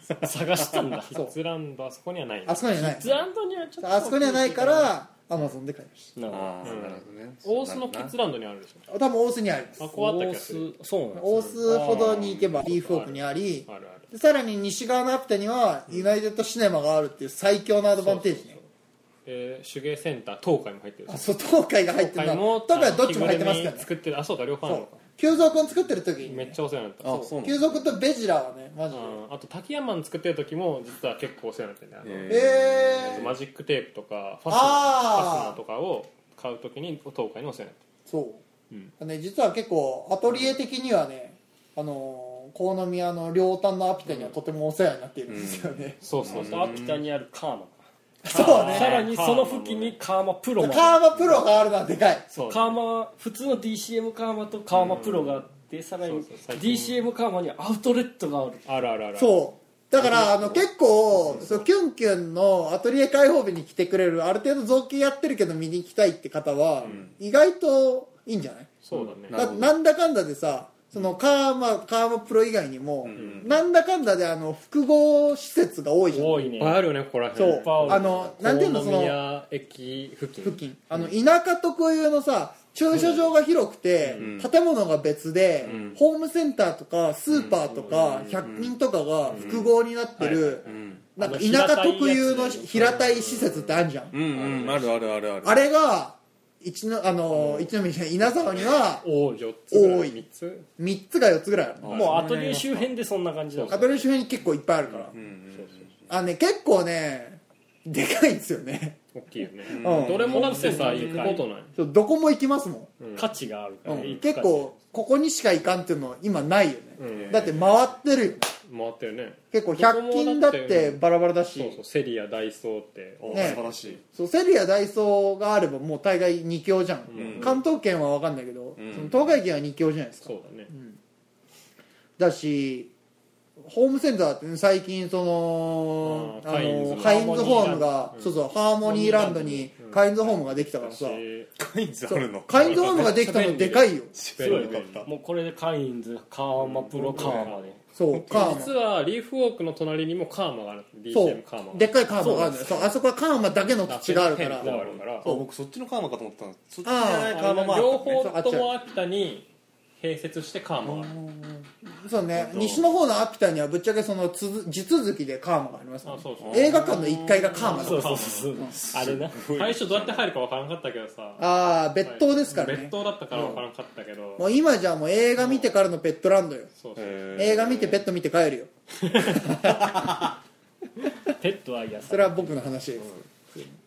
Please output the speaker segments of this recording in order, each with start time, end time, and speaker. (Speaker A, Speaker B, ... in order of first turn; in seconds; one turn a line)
Speaker A: 0.2-1.2
Speaker B: 1.1-3.2
Speaker C: 2.5-3.1
Speaker A: 2.8-4.9
Speaker C: 3.8-6.2
Speaker A: 6.2-6.7
Speaker D: 6.3-8.1
Speaker B: 6.6-8.8
Speaker C: 8.9-9.8
Speaker B: 9.8-10.7
Speaker A: 9.8-12.2
Speaker C: 11.1-18.6
Speaker B: 11.3-14.0
Speaker D: 11.9-12.6
Speaker B: 17.9-18.6
Speaker B: 19.2-21.3
Speaker C: 21.1-23.9
Speaker B: 21.9-25.0
Speaker C: 24.6-26.6
Speaker B: 26.2-27.4
Speaker D: 27.0-27.8
Speaker C: 27.4-29.2
Speaker B: 28.9-32.4
Speaker D: 32.0-33.4
Speaker C: 32.3-33.3
Speaker B: 32.9-37.8
Speaker C: 34.5-35.6
Speaker C: 38.1-38.4
Speaker C: 39.0-46.0
Speaker B: 44.0-44.3
Speaker D: 45.3-47.0
Speaker B: 46.0-46.8
Speaker A: 46.3-51.1
Speaker C: 48.2-49.0
Speaker B: 48.3-50.0
Speaker C: 50.6-52.3
Speaker B: 52.3-52.7
Speaker A: 52.4-58.6
Speaker B: 54.8-55.3
Speaker B: 56.0-57.0
Speaker B: 58.6-59.4
Speaker C: 59.1-68.7
Speaker A: 60.0-60.5
Speaker B: 61.3-61.6
Speaker B: 66.8-67.1
Speaker D: 66.8-67.1
Speaker B: 68.8-69.4
Speaker D: 68.9-69.7
Speaker C: 69.3-76.5
Speaker D: 73.0-73.6
Speaker B: 73.1-73.4
Speaker A: 76.1-78.3
Speaker B: 76.5-80.6
Speaker C: 77.3-79.2
Speaker C: 80.4-90.6
Speaker B: 84.0-84.3
Speaker D: 84.1-84.5
Speaker B: 85.6-86.0
Speaker D: 85.6-86.0
Speaker D: 87.3-87.6
Speaker B: 87.7-88.6
Speaker D: 88.4-88.7
Speaker B: 89.3-89.7
Speaker D: 89.3-89.7
Speaker B: 90.2-94.9
Speaker D: 90.6-91.0
Speaker C: 91.2-94.2
Speaker A: 91.2-92.5
Speaker D: 94.1-95.6
Speaker C: 95.4-99.1
Speaker B: 99.0-100.7
Speaker C: 99.7-100.2
Speaker C: 100.8-102.2
Speaker D: 101.8-102.8
Speaker A: 101.9-104.0
Speaker B: 101.9-102.8
Speaker B: 103.5-103.9
Speaker C: 103.7-105.1
Speaker D: 104.9-106.1
Speaker B: 105.5-105.8
Speaker C: 106.1-109.0
Speaker B: 109.1-111.7
Speaker D: 109.7-111.4
Speaker C: 109.7-110.8
Speaker A: 110.3-111.4
Speaker C: 111.7-112.9
Speaker B: 113.0-113.3
Speaker A: 113.2-114.7
Speaker B: 113.8-114.2
Speaker C: 113.8-118.5
Speaker B: 117.0-117.6
Speaker D: 117.1-117.8
Speaker B: 118.6-124.0
Speaker C: 119.5-121.8
Speaker D: 123.2-124.0
Speaker C: 123.3-131.0
Speaker B: 127.1-127.6
Speaker D: 127.1-127.6
Speaker D: 128.8-129.3
Speaker B: 130.2-130.7
Speaker C: 132.2-132.9
Speaker C: 133.6-141.2
Speaker B: 136.0-141.5
Speaker A: 136.9-137.9
Speaker A: 138.9-139.6
Speaker D: 141.6-143.2
Speaker C: 142.1-144.1
Speaker B: 142.5-145.1
Speaker D: 144.1-145.1
Speaker A: 144.4-147.8
Speaker D: 146.7-147.6
Speaker B: 146.9-151.9
Speaker C: 147.9-148.7
Speaker D: 148.1-148.7
Speaker C: 151.1-154.7
Speaker A: 152.2-152.6
Speaker B: 153.9-155.2
Speaker A: 154.6-155.0
Speaker D: 154.7-158.2
Speaker C: 156.8-158.7
Speaker B: 157.3-159.5
Speaker B: 160.0-161.1
Speaker C: 161.1-168.7
Speaker D: 162.3-162.9
Speaker B: 166.0-168.5
Speaker D: 166.4-167.2
Speaker A: 167.6-169.4
Speaker D: 168.7-170.3
Speaker B: 169.5-171.5
Speaker C: 171.4-173.6
Speaker B: 172.0-174.4
Speaker C: 174.4-176.7
Speaker B: 175.4-175.7
Speaker B: 176.8-177.2
Speaker D: 176.9-178.0
Speaker C: 177.3-180.1
Speaker B: 179.0-179.6
Speaker D: 179.9-180.2
Speaker A: 181.4-182.7
Speaker C: 182.1-183.7